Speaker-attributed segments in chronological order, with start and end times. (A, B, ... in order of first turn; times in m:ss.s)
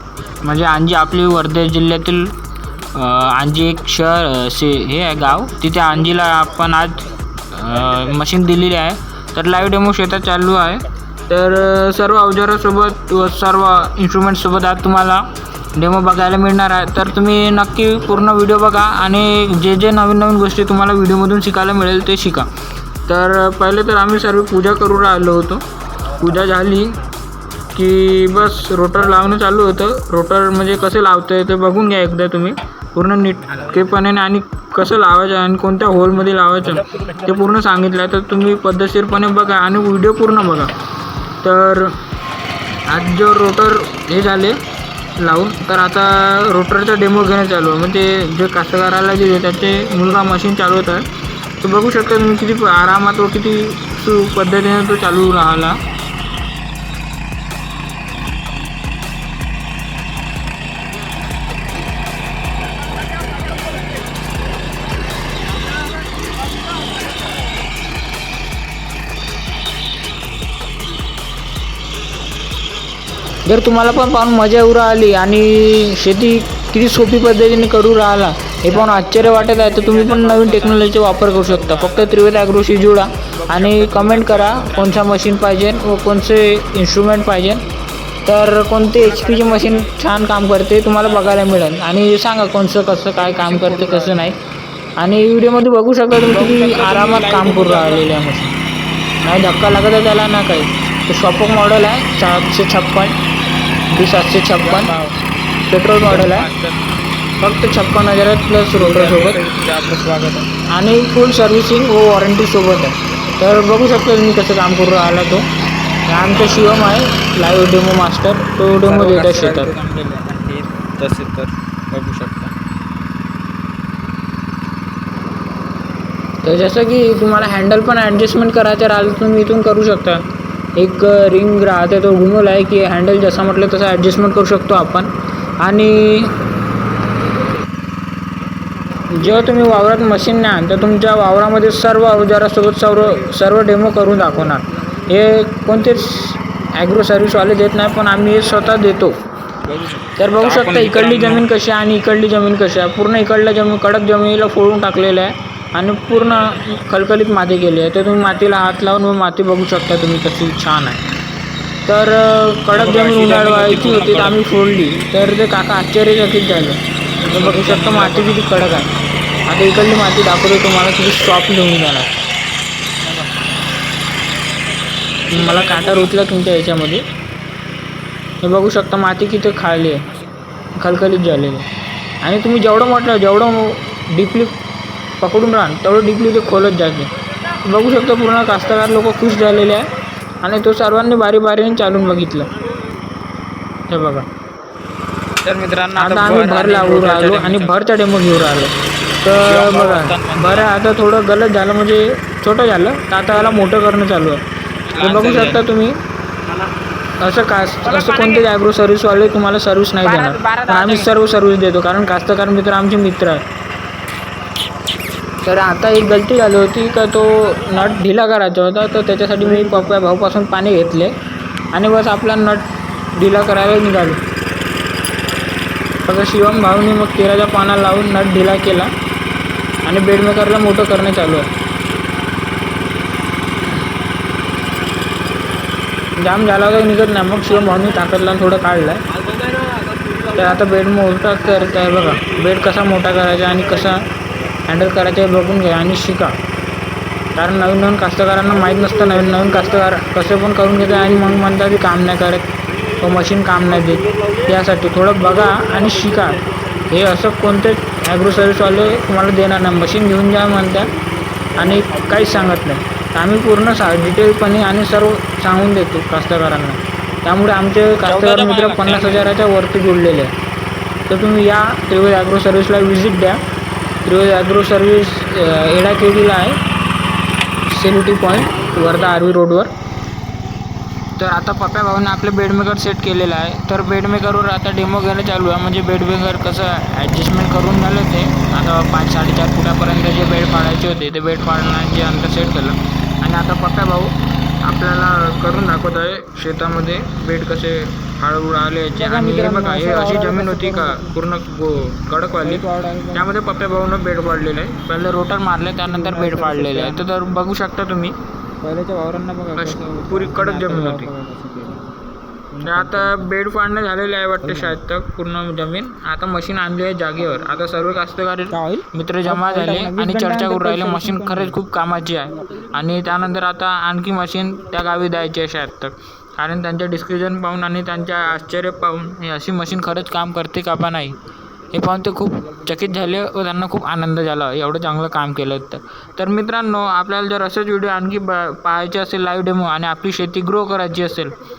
0:00.4-0:02.3 A
0:02.9-0:22.5 A
0:23.1-0:27.0 A
0:27.7-0:40.7 A
0:41.4-0:42.0 A
0:42.9-0:44.6 A
0:45.2-0:51.1 A
0:51.6-0:55.8 A
1:13.4-1:27.6 A
1:18.7-1:22.2 B
1:23.4-1:25.1 B
1:28.2-1:34.4 A
1:29.0-1:29.9 B
1:33.2-1:34.2 B
1:35.0-1:38.5 A
1:36.2-1:38.1 B
1:39.2-1:43.1 A
1:43.9-1:44.9 A
1:44.6-1:45.2 B
1:45.7-1:46.5 A
1:46.0-1:46.9 B
1:47.4-1:49.4 A
1:48.7-1:50.5 B
1:50.7-1:55.5 A
1:56.0-1:59.7 A
1:58.8-2:02.5 B
2:06.4-2:16.3 A
2:19.1-2:29.2 A
2:29.6-2:31.5 B
2:30.2-2:41.0 A
2:41.9-2:48.9 A
2:42.7-2:44.4 B
2:47.2-2:48.6 B
2:49.5-2:52.1 A
2:53.0-2:53.4 B
2:55.3-2:57.0 A
2:58.4-3:00.0 A
3:00.8-3:01.6 A
3:02.2-3:04.6 A
3:05.2-3:07.1 A
3:07.6-3:09.9 A
3:10.4-3:12.5 A
3:13.9-3:14.2 A
3:15.4-3:17.8 B
3:16.0-3:24.4 A
3:19.4-3:20.8 B
3:24.9-3:25.6 B
3:25.0-3:26.0 A
3:27.2-3:33.4 A
3:27.9-3:28.4 B
3:30.0-3:31.1 B
3:35.4-3:41.1 A
3:39.5-3:39.9 B
3:41.7-3:44.2 A
3:46.0-3:48.9 A
3:49.8-3:51.5 A
3:56.2-3:59.0 A
4:00.3-4:04.1 A
4:04.7-4:06.4 A
4:07.3-4:12.5 A
4:13.0-4:20.9 A
4:21.6-4:30.3 A
4:28.0-4:29.4 B
4:31.1-4:33.4 A
4:34.0-4:36.6 A
4:37.7-4:39.7 A
4:41.2-5:08.1 A
4:58.9-5:01.2 B
5:02.4-5:03.2 B
5:05.8-5:07.0 B
5:08.6-5:11.8 B
5:09.6-5:11.1 A
5:12.5-5:13.2 B
5:12.6-5:31.2 A
5:14.4-5:14.8 B
5:18.5-5:21.6 B
5:31.7-5:41.4 A